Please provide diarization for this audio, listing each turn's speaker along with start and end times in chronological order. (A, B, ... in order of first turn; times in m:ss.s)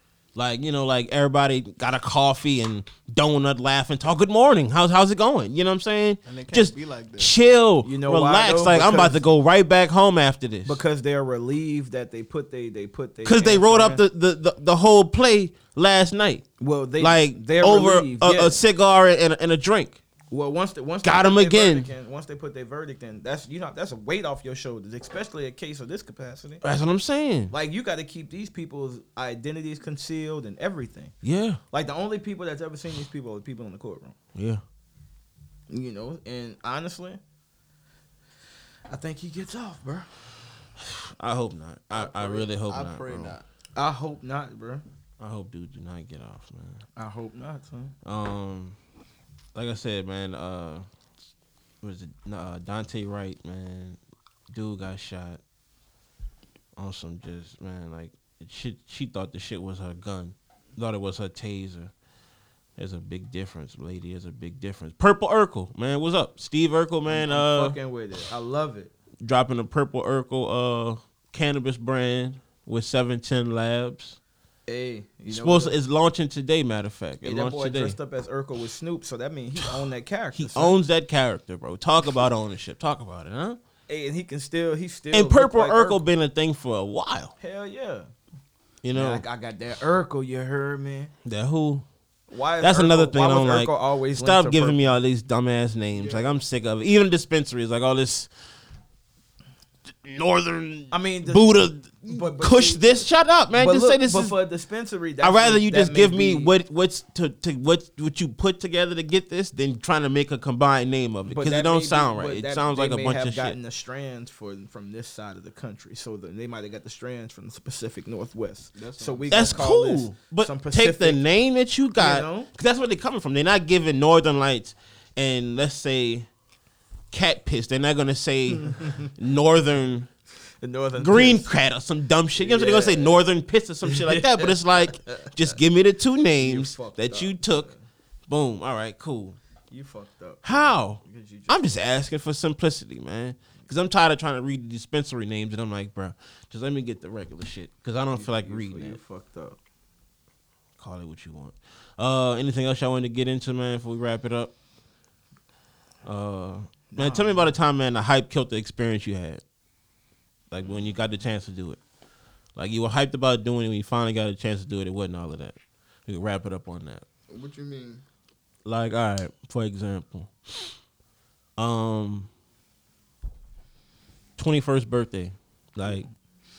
0:00.3-0:10.8 A
0:06.2-0:07.3 B
0:07.8-0:09.2 C
0:10.6-0:14.0 C
0:13.2-0:20.0 A
0:16.6-0:18.6 C
0:20.3-0:26.6 C
0:21.0-0:21.9 A
0:26.6-0:27.5 A
0:27.5-0:31.1 C
0:31.2-0:31.6 A
0:31.7-0:34.2 C
0:34.3-0:34.6 A
0:35.7-0:37.2 C
0:38.9-0:40.1 C
0:41.2-0:43.4 A
0:41.9-0:43.4 B
0:43.7-0:44.8 C
0:45.2-0:46.8 A
0:47.0-0:47.9 C
0:48.0-0:48.8 A
0:49.5-0:50.8 A
0:51.8-0:54.0 A
0:54.5-0:55.4 A
0:56.8-1:01.9 A
1:02.8-1:07.8 A
1:07.1-1:08.9 C
1:09.2-1:14.2 A
1:14.7-1:15.8 C
1:15.3-1:18.0 A
1:17.2-1:20.8 C
1:20.4-1:23.6 A
1:23.9-1:26.0 C
1:25.1-1:27.3 A
1:27.4-1:28.1 C
1:28.8-1:29.2 A
1:28.9-1:31.1 C
1:31.2-1:31.8 A
1:32.3-1:34.9 C
1:32.6-1:38.3 A
1:35.9-1:36.3 C
1:40.0-1:44.4 A
1:40.9-1:41.4 C
1:42.0-1:46.5 C
1:45.2-1:53.6 A
1:51.3-2:01.2 C
1:58.7-1:59.6 B
1:59.3-2:06.3 A
2:02.0-2:02.5 C
2:07.1-2:10.1 A
2:08.6-2:09.1 C
2:10.6-2:11.5 C
2:11.0-2:17.7 A
2:12.4-2:13.2 C
2:13.9-2:15.3 C
2:16.4-2:17.8 C
2:18.3-2:19.4 A
2:19.7-2:21.7 C
2:20.4-2:29.0 A
2:28.1-2:29.6 C
2:30.8-2:34.5 A
2:36.0-2:39.4 A
2:36.9-2:37.5 C
2:40.5-2:41.8 A
2:42.6-2:47.0 A
2:47.3-2:48.0 B
2:48.6-2:50.7 A
2:51.6-2:52.3 A
2:54.4-2:56.1 A